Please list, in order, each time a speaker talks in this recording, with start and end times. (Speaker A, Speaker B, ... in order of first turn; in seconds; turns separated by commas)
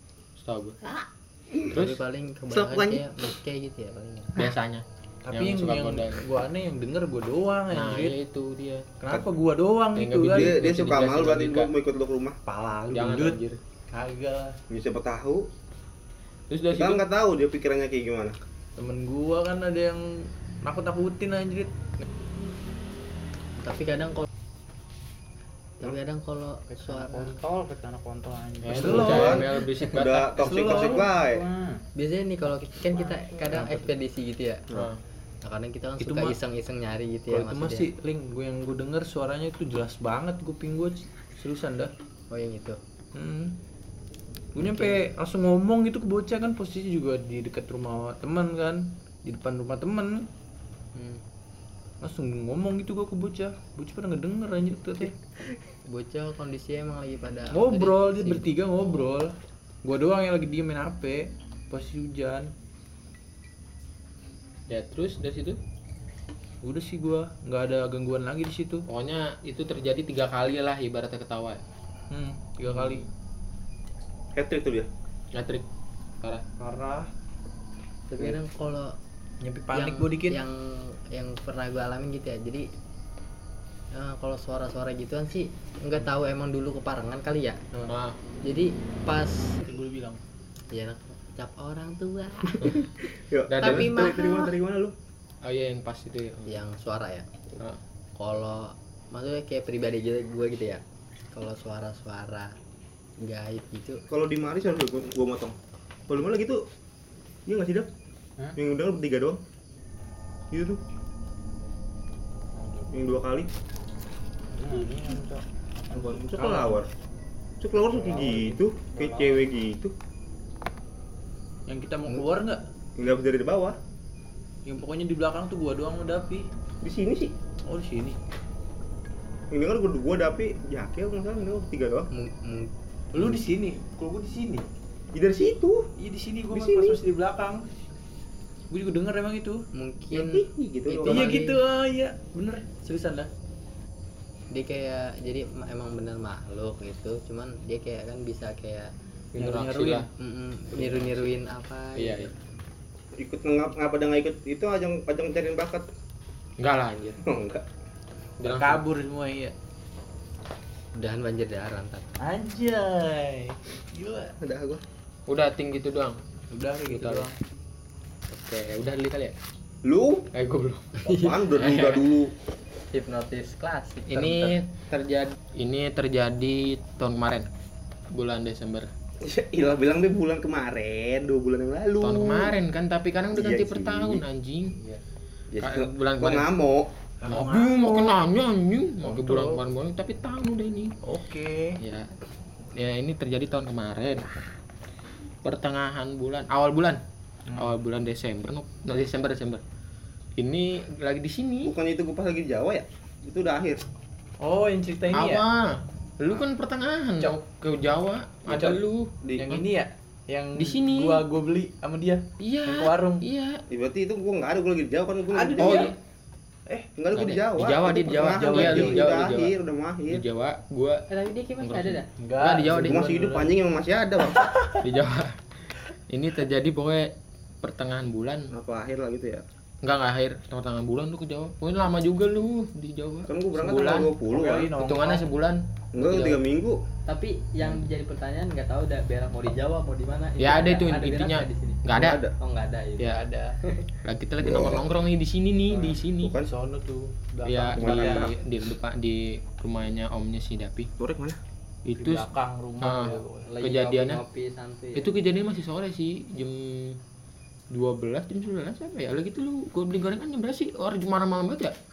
Speaker A: 0.3-0.8, Speaker B: 0.8-1.8, Speaker C: 1.7-4.4, Speaker A: 1.7-2.0, Speaker B: 2.5-3.0, Speaker A: 4.3-6.2, Speaker D: 5.2-8.2, Speaker A: 7.7-8.8, Speaker D: 9.0-10.6, Speaker A: 9.9-11.7, Speaker B: 10.3-12.4, Speaker D: 12.4-14.6, Speaker A: 12.9-13.6, Speaker B: 14.7-15.5, Speaker A: 16.5-17.0, Speaker B: 16.7-18.4, Speaker D: 18.8-21.7, Speaker C: 23.6-24.3, Speaker C: 25.8-27.4, Speaker E: 26.7-28.9, Speaker A: 28.6-30.7, Speaker D: 28.7-29.4, Speaker B: 28.8-31.4, Speaker D: 30.4-31.1, Speaker E: 31.1-31.8, Speaker C: 31.9-34.6, Speaker D: 33.5-33.9, Speaker A: 34.7-35.0, Speaker C: 35.4-37.9, Speaker D: 36.0-36.4, Speaker D: 37.3-41.9, Speaker C: 42.3-42.8, Speaker D: 43.1-43.6, Speaker D: 44.5-50.3, Speaker C: 44.6-45.0, Speaker C: 50.9-51.2, Speaker D: 52.0-55.1, Speaker C: 55.9-58.5, Speaker D: 57.5-62.5, Speaker A: 64.7-65.6, Speaker D: 66.6-68.8, Speaker A: 68.9-71.6, Speaker D: 72.1-73.0, Speaker A: 72.7-73.0, Speaker B: 74.3-74.9, Speaker A: 75.3-75.6, Speaker D: 76.6-77.1, Speaker C: 78.1-78.9, Speaker D: 79.4-80.4, Speaker C: 79.7-82.7, Speaker C: 83.9-87.6, Speaker A: 87.9-88.2, Speaker C: 88.4-89.7, Speaker D: 89.6-90.2, Speaker C: 90.7-92.8, Speaker B: 92.5-94.9, Speaker A: 93.5-94.1, Speaker C: 93.6-94.5, Speaker A: 95.4-96.6, Speaker C: 96.5-97.3, Speaker C: 98.2-100.8, Speaker C: 101.3-102.6, Speaker C: 103.2-104.0, Speaker B: 104.1-105.5, Speaker B: 106.1-106.6, Speaker B: 107.5-107.9, Speaker B: 108.5-109.4, Speaker B: 110.5-110.8, Speaker E: 112.5-112.9, Speaker B: 112.9-113.5, Speaker E: 114.5-116.1, Speaker B: 115.9-116.9, Speaker D: 116.2-116.8, Speaker B: 117.6-119.9, Speaker D: 118.1-118.5, Speaker D: 121.7-122.6, Speaker B: 123.0-123.8, Speaker D: 124.6-126.5, Speaker B: 126.8-127.3, Speaker D: 127.7-128.2, Speaker B: 129.5-132.1, Speaker C: 132.1-132.7, Speaker D: 133.1-134.7, Speaker B: 135.1-135.9, Speaker D: 136.0-137.7, Speaker B: 136.5-137.0, Speaker D: 138.7-139.6, Speaker C: 139.7-141.6, Speaker B: 140.1-141.4, Speaker D: 141.1-143.3, Speaker C: 144.5-148.9, Speaker A: 149.3-150.1, Speaker D: 149.4-150.1, Speaker C: 150.2-152.3, Speaker A: 150.7-151.4, Speaker A: 151.9-152.3, Speaker B: 153.2-155.9, Speaker A: 156.6-157.2, Speaker B: 157.2-157.7, Speaker A: 158.4-158.8, Speaker D: 158.4-159.5, Speaker C: 160.9-162.1, Speaker D: 162.2-164.3, Speaker B: 164.4-164.8, Speaker A: 165.3-166.2, Speaker D: 166.5-167.3, Speaker A: 166.9-167.3, Speaker A: 168.3-169.3, Speaker B: 169.8-170.3, Speaker A: 170.3-171.0, Speaker C: 171.0-172.0, Speaker B: 171.0-172.3, Speaker A: 171.6-171.9, Speaker C: 172.9-174.6, Speaker A: 174.1-177.5, Speaker A: 178.1-178.9, Speaker B: 179.2-182.6, Speaker A: 182.0-184.8, Speaker B: 183.3-184.2, Speaker B: 185.5-186.9, Speaker A: 185.6-186.5, Speaker D: 187.2-188.2, Speaker A: 187.3-190.9, Speaker D: 189.0-189.6, Speaker D: 191.0-191.8, Speaker A: 191.8-192.1, Speaker A: 192.7-194.3, Speaker A: 195.4-197.0, Speaker D: 197.5-197.8, Speaker A: 197.5-199.6, Speaker A: 200.4-201.7, Speaker B: 201.6-203.8, Speaker D: 204.4-205.4, Speaker A: 205.1-209.6, Speaker D: 208.5-208.8, Speaker B: 209.2-209.6, Speaker D: 209.3-213.2, Speaker A: 210.5-211.2, Speaker A: 212.4-213.6, Speaker B: 213.7-215.9, Speaker D: 215.3-215.9, Speaker A: 215.6-215.9, Speaker B: 217.0-220.2, Speaker A: 217.1-219.5, Speaker D: 218.2-219.2, Speaker A: 220.1-221.0, Speaker C: 221.1-222.1, Speaker A: 221.6-223.1, Speaker D: 222.2-223.5, Speaker B: 222.8-224.5, Speaker D: 224.3-224.8, Speaker A: 224.8-225.4, Speaker A: 226.1-228.5, Speaker B: 228.5-229.4, Speaker A: 229.8-234.1, Speaker B: 233.3-234.7, Speaker D: 234.3-235.3, Speaker A: 234.8-236.4, Speaker B: 235.9-236.8, Speaker C: 237.1-241.8, Speaker A: 240.4-242.2, Speaker B: 241.9-242.3, Speaker C: 242.4-243.9, Speaker D: 243.1-243.6, Speaker A: 244.0-246.3, Speaker B: 244.4-244.9, Speaker B: 246.2-246.5, Speaker D: 246.4-248.3, Speaker A: 247.4-250.9, Speaker B: 247.8-248.3, Speaker B: 251.0-251.4, Speaker A: 251.8-254.2, Speaker D: 252.0-253.5, Speaker C: 253.4-255.1, Speaker A: 254.9-257.0, Speaker A: 257.7-261.7